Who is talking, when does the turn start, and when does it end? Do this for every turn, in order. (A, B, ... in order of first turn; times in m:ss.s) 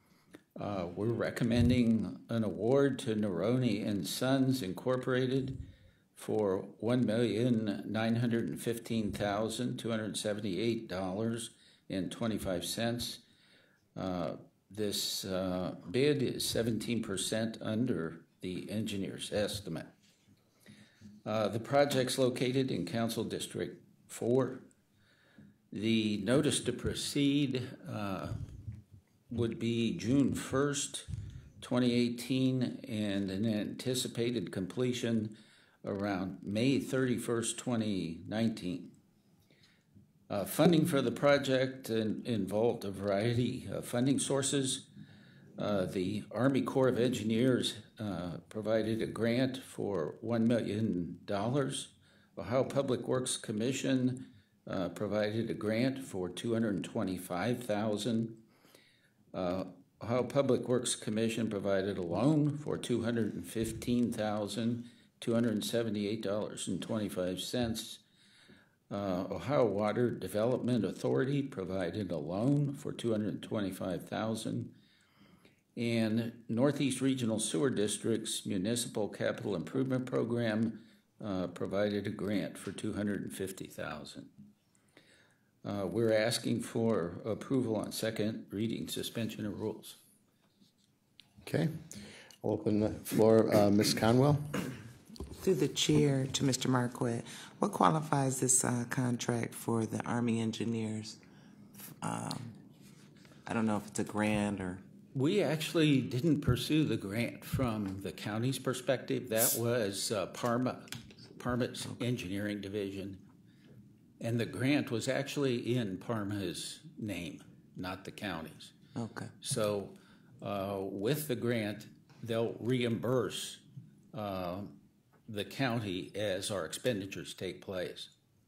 0:00.6-0:13.2 A
0:14.0-0:19.9 A
0:21.2-0:24.7 A
0:25.7-0:28.4 A
0:29.3-0:31.1 A
0:31.6-0:38.9 A
0:40.3-0:44.9 A
0:45.6-0:58.4 A
0:59.3-1:08.0 A
1:08.9-1:14.7 A
1:15.8-1:24.3 A
1:25.6-1:30.0 A
1:31.4-1:31.9 B
1:32.4-1:34.6 B
1:35.4-1:41.2 C
1:41.8-1:42.6 C
1:43.5-1:44.8 C
1:45.1-1:53.2 A
1:54.2-1:58.8 A
1:59.0-1:59.3 C
1:59.4-2:08.1 A